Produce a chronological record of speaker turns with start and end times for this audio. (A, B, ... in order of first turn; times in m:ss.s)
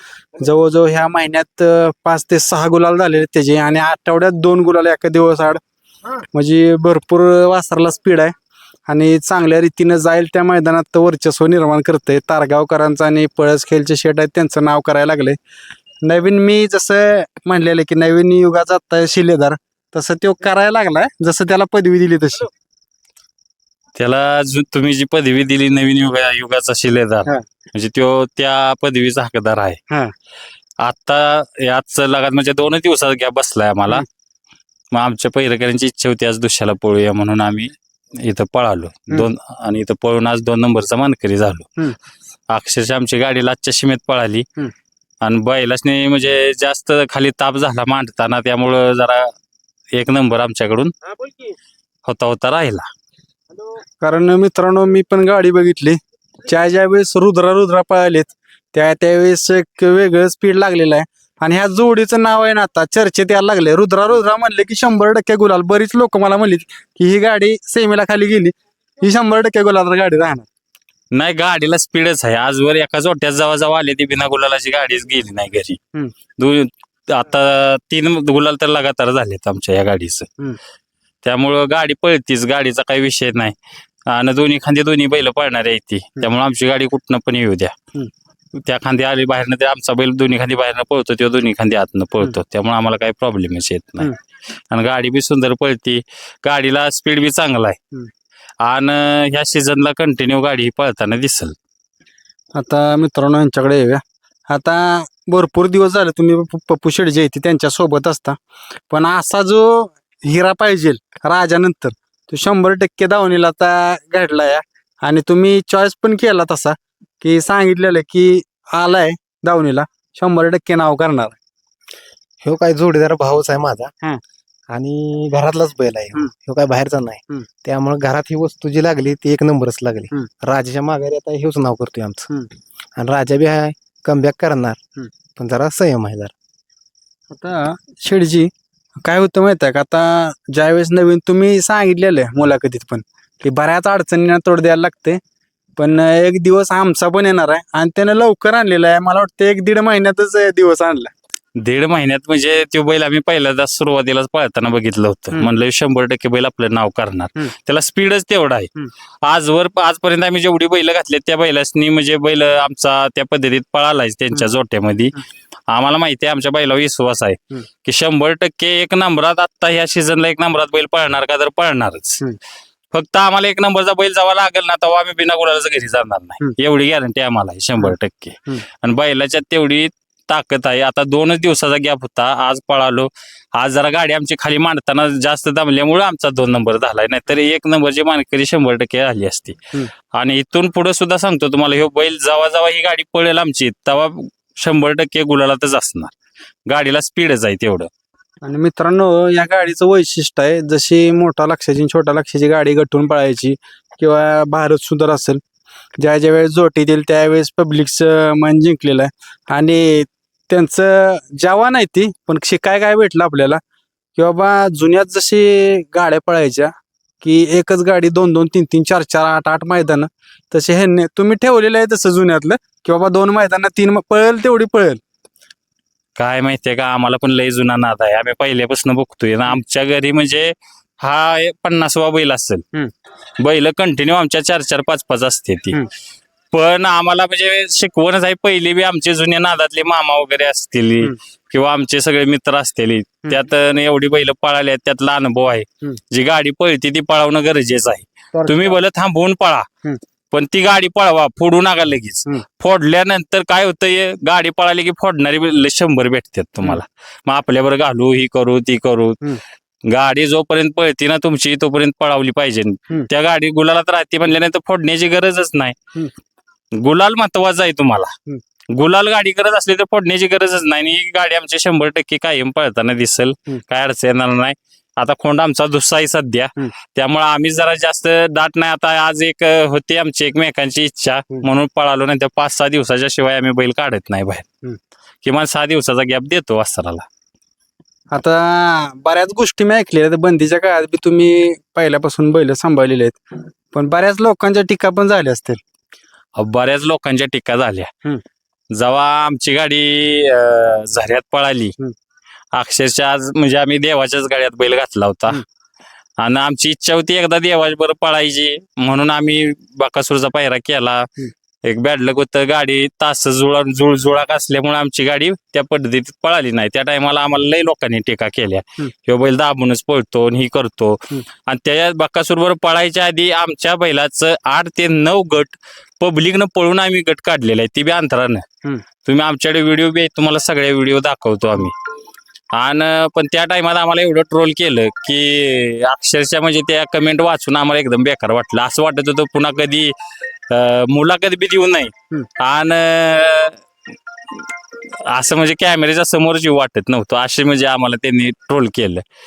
0:00.4-0:05.6 A
0:06.3-0:08.3 A
0:08.9-0:15.4 A
0:16.0-0:22.5 A
0:24.0-0:29.8 B
0:30.8-0:34.0 B
0:34.9-0:41.7 B
0:42.5-0:44.5 B
0:45.2-0:49.3 B
0:49.9-0:50.9 B
0:52.1-0:52.9 B
0:54.0-1:10.5 A
1:11.1-1:15.8 B
1:16.4-1:20.3 B
1:21.2-1:23.6 B
1:24.1-1:27.7 B
1:28.6-1:34.1 B
1:34.7-1:37.8 B
1:38.6-1:41.6 B
1:42.6-1:48.4 A
1:48.9-2:01.4 A
2:02.4-2:03.9 C
2:04.7-2:12.3 C
2:13.0-2:14.8 C
2:15.4-2:16.3 C
2:17.3-2:18.5 A
2:19.0-2:25.2 A
2:25.8-2:31.1 A
2:31.6-2:38.7 B
2:39.2-2:45.2 B
2:45.7-2:52.2 B
2:52.9-3:09.6 B
3:10.1-3:16.1 B
3:16.7-3:17.9 B
3:18.4-3:25.4 A
3:26.0-3:33.6 A
3:34.2-3:45.0 A
3:46.2-3:52.6 B
3:53.4-3:55.8 B
3:56.5-4:09.7 B
4:08.4-4:08.8 A
4:10.3-4:19.4 B
4:19.9-4:25.8 B
4:26.8-4:28.1 B
4:28.7-4:44.4 B
4:45.2-4:47.1 B
4:48.1-4:53.2 A
4:53.7-4:55.6 A
4:56.4-4:57.9 B
4:58.7-5:01.7 B
5:02.5-5:05.4 B
5:06.2-5:11.1 B
5:11.6-5:28.4 B
5:29.0-5:31.7 B
5:32.5-5:39.9 B
5:40.5-5:43.6 B
5:45.1-5:49.0 B